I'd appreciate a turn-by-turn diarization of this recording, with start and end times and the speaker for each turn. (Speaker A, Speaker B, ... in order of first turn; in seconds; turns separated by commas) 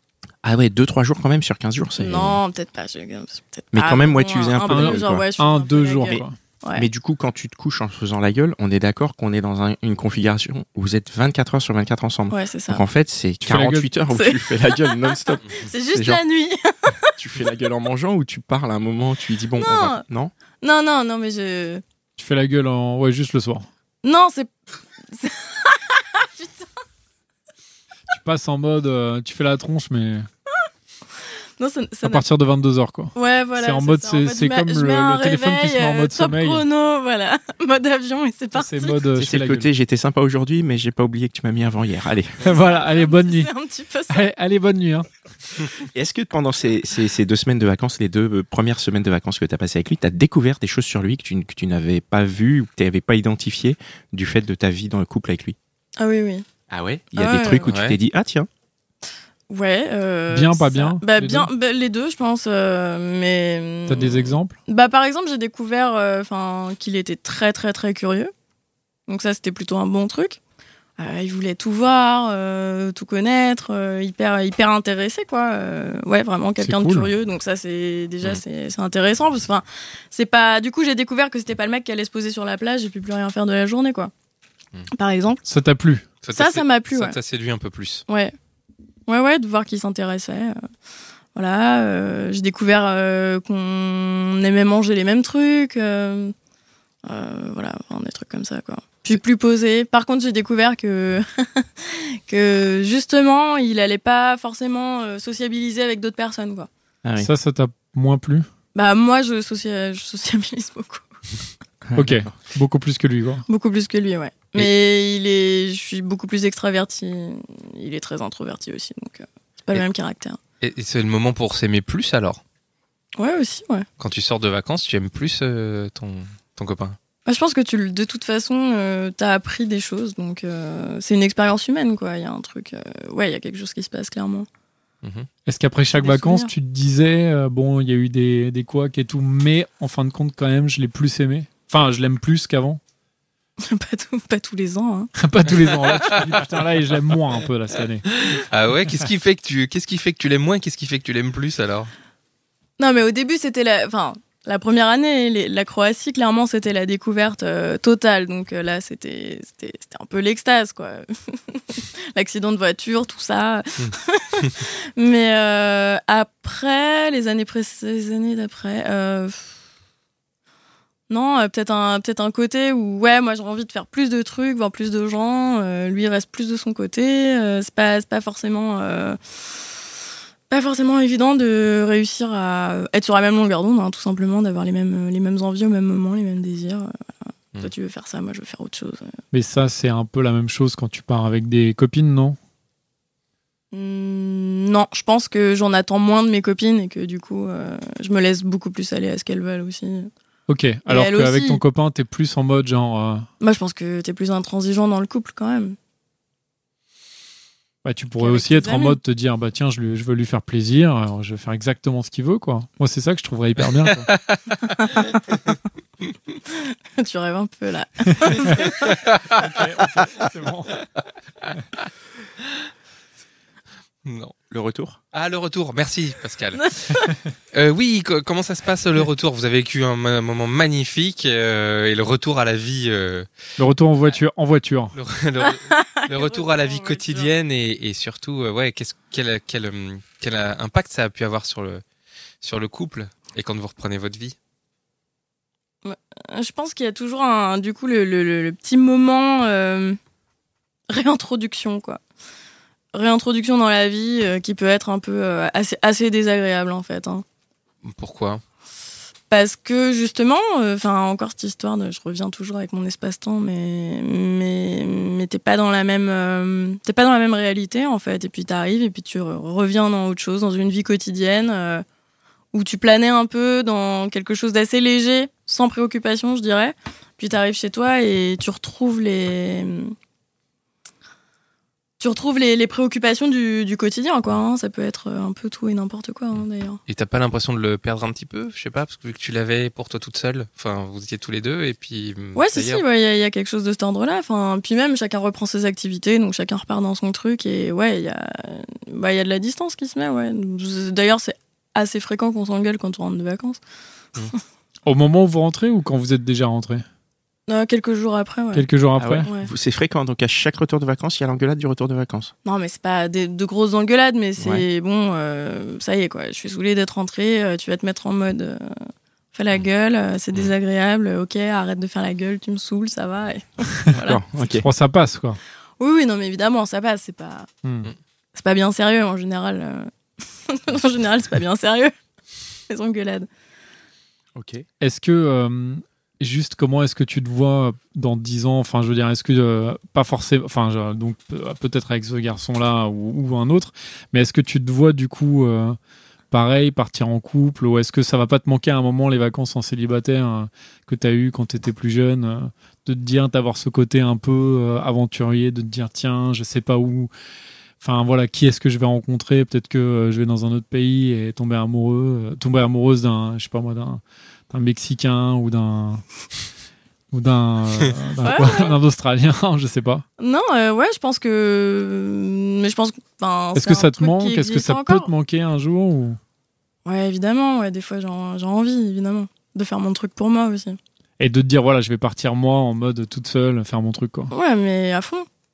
Speaker A: 0.4-2.4, Speaker B: 2.0-6.9, Speaker A: 3.7-5.3, Speaker C: 4.7-6.4, Speaker A: 6.8-16.2, Speaker B: 12.3-12.8, Speaker C: 13.4-13.9, Speaker B: 14.1-17.0, Speaker A: 17.2-20.3, Speaker B: 19.6-20.0, Speaker B: 20.6-21.8, Speaker C: 22.2-23.7, Speaker B: 24.0-24.5, Speaker B: 25.1-26.7, Speaker C: 28.1-30.3, Speaker B: 31.6-32.3, Speaker C: 32.0-36.6, Speaker B: 33.1-39.0, Speaker C: 38.6-39.7, Speaker A: 39.2-42.4, Speaker C: 42.4-43.5, Speaker B: 42.4-44.3, Speaker C: 44.1-45.1, Speaker A: 45.8-55.6, Speaker B: 56.0-56.5, Speaker A: 56.7-58.5, Speaker B: 57.2-57.7, Speaker D: 57.7-58.0, Speaker B: 59.5-68.3, Speaker C: 60.3-61.5, Speaker C: 63.9-64.6, Speaker B: 69.1-70.4, Speaker B: 71.0-84.1, Speaker C: 76.6-77.1, Speaker B: 84.9-85.4, Speaker C: 85.5-86.0, Speaker D: 86.2-88.0, Speaker B: 86.3-87.2, Speaker B: 88.1-88.3, Speaker B: 89.1-90.6, Speaker B: 91.3-96.3, Speaker B: 97.0-106.7, Speaker A: 107.0-107.3, Speaker C: 107.2-108.5, Speaker B: 108.8-111.1, Speaker A: 111.9-112.3, Speaker C: 112.0-113.5, Speaker B: 113.5-120.4, Speaker D: 120.6-122.4, Speaker B: 123.2-123.9, Speaker D: 124.0-127.0, Speaker B: 127.3-134.5, Speaker D: 135.0-135.3, Speaker C: 135.5-142.8, Speaker B: 136.0-136.5, Speaker B: 143.6-145.1, Speaker C: 145.2-148.1, Speaker D: 148.1-151.9, Speaker B: 152.8-169.5, Speaker D: 163.8-164.6, Speaker B: 171.1-179.2, Speaker B: 180.5-186.9, Speaker B: 187.6-189.1, Speaker C: 189.3-192.4, Speaker B: 193.7-200.1, Speaker C: 200.5-203.3, Speaker B: 200.9-201.6, Speaker B: 203.4-205.8, Speaker C: 207.8-214.1, Speaker B: 208.2-209.0, Speaker D: 213.8-214.4, Speaker B: 214.8-215.2, Speaker B: 216.5-219.0, Speaker D: 218.7-219.2, Speaker C: 219.3-220.8, Speaker D: 224.1-224.3, Speaker A: 224.5-225.0, Speaker D: 225.1-227.0, Speaker B: 226.7-227.1, Speaker D: 227.5-233.3, Speaker C: 233.6-234.9, Speaker D: 234.9-241.8, Speaker B: 235.4-237.3, Speaker D: 242.4-244.3, Speaker B: 245.8-250.0, Speaker B: 250.9-252.0, Speaker B: 252.9-257.2, Speaker D: 257.8-258.4, Speaker B: 259.3-271.9, Speaker B: 272.5-279.9, Speaker B: 282.0-286.8, Speaker D: 286.3-292.8, Speaker B: 292.4-303.6, Speaker C: 304.9-306.9, Speaker B: 307.5-308.7, Speaker C: 308.5-309.3, Speaker A: 309.0-312.3, Speaker B: 312.4-318.8, Speaker A: 314.4-314.7, Speaker B: 319.3-324.2, Speaker A: 324.0-324.7, Speaker C: 324.6-325.4, Speaker B: 325.8-327.5, Speaker C: 327.6-327.9, Speaker B: 328.4-329.9, Speaker B: 330.5-331.9, Speaker B: 332.7-333.3, Speaker A: 334.4-334.6, Speaker C: 334.8-345.8, Speaker C: 346.3-357.1, Speaker C: 357.8-366.0, Speaker C: 367.1-370.1, Speaker B: 368.2-368.8, Speaker B: 370.2-375.1, Speaker C: 373.6-376.2, Speaker B: 376.9-380.8, Speaker C: 381.2-384.3, Speaker B: 384.3-385.3